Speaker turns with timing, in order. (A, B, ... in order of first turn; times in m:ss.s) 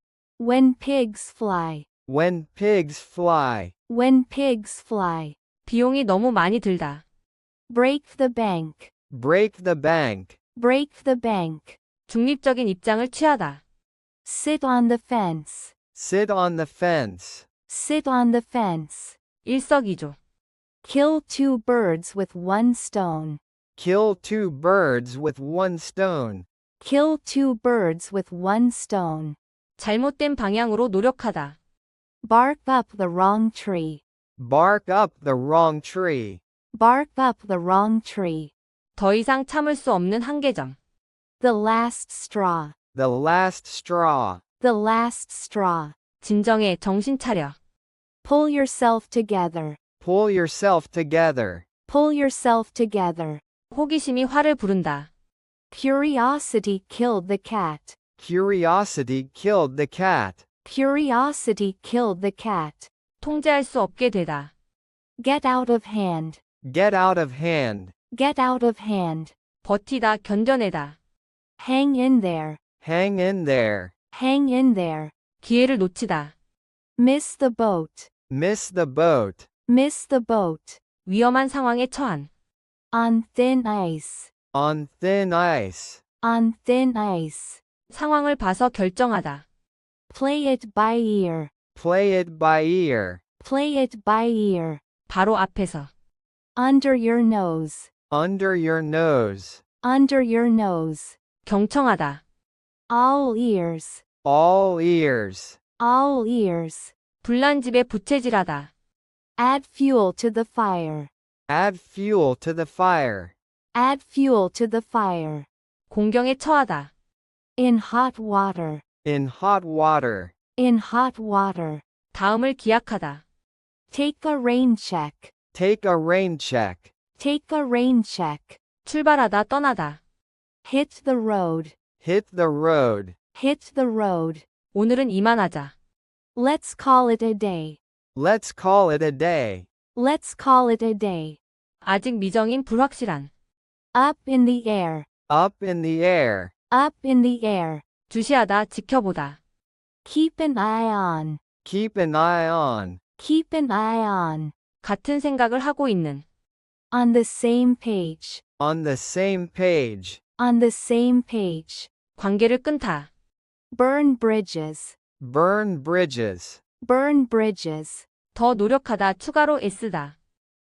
0:00.4-0:01.8 A
0:02.1-0:03.7 B
0:03.9-0:05.4 A
0:05.6-0:07.0 C
0:07.7-0:08.9 A
0:09.1-0:10.3 B
0:10.6-0:11.8 A
0:12.1-0:13.6 C
0:14.2-0:15.7 A
0:15.9-0:17.4 B
0:17.7-0:19.2 A
0:19.4-0:20.2 C
0:20.8-0:23.4 A
0:23.8-0:26.4 B
0:26.8-0:29.4 A
0:29.8-0:31.6 C
0:32.2-0:34.0 A
0:34.4-0:36.4 B
0:36.7-0:38.5 A
0:39.0-0:40.8 C
0:41.4-0:42.7 A
0:42.9-0:44.4 B
0:44.6-0:46.0 A
0:46.2-0:47.6 C
0:48.2-0:49.8 A
0:50.0-0:51.6 B
0:51.9-0:53.4 A
0:53.7-0:55.1 C
0:55.7-0:58.0 A
0:58.2-1:00.4 B
1:00.6-1:02.9 A
1:03.2-1:04.5 C
1:05.2-1:06.4 A
1:06.6-1:07.9 B
1:08.1-1:09.3 A
1:09.6-1:11.0 C
1:11.6-1:12.6 A
1:12.8-1:13.9 B
1:14.1-1:15.1 A
1:15.4-1:16.3 C
1:17.0-1:18.1 A
1:18.3-1:19.4 B
1:19.7-1:20.8 A
1:21.0-1:22.3 C
1:22.9-1:24.3 A
1:24.5-1:26.0 B
1:26.2-1:27.6 A
1:27.9-1:29.4 C
1:30.1-1:31.5 A
1:31.8-1:33.2 B
1:33.4-1:34.8 A
1:35.1-1:35.9 C
1:36.6-1:37.9 A
1:38.1-1:39.6 B
1:39.8-1:41.2 A
1:41.4-1:42.2 C
1:42.9-1:44.0 A
1:44.2-1:45.6 B
1:45.8-1:46.9 A
1:47.2-1:48.7 C
1:49.4-1:51.1 A
1:51.5-1:53.3 B
1:53.7-1:55.5 A
1:55.9-1:56.9 C
1:57.6-1:58.8 A
1:59.0-2:00.3 B
2:00.6-2:01.8 A
2:02.1-2:03.2 C
2:03.9-2:05.3 A
2:05.5-2:06.9 B
2:07.2-2:08.6 A
2:08.8-2:10.0 C
2:10.6-2:11.7 A
2:12.0-2:13.1 B
2:13.3-2:14.4 A
2:14.7-2:15.7 C
2:16.3-2:17.8 A
2:18.2-2:19.7 B
2:19.9-2:21.4 A
2:21.8-2:23.3 C
2:23.9-2:25.1 A
2:25.3-2:26.5 B
2:26.7-2:27.8 A
2:28.1-2:29.4 C
2:30.0-2:31.4 A
2:31.6-2:33.0 B
2:33.2-2:34.5 A
2:34.8-2:36.2 C
2:36.9-2:38.4 A
2:38.6-2:40.2 B
2:40.4-2:41.9 A
2:42.2-2:43.1 C
2:43.7-2:45.0 A
2:45.2-2:46.6 B
2:46.8-2:48.0 A
2:48.3-2:50.1 C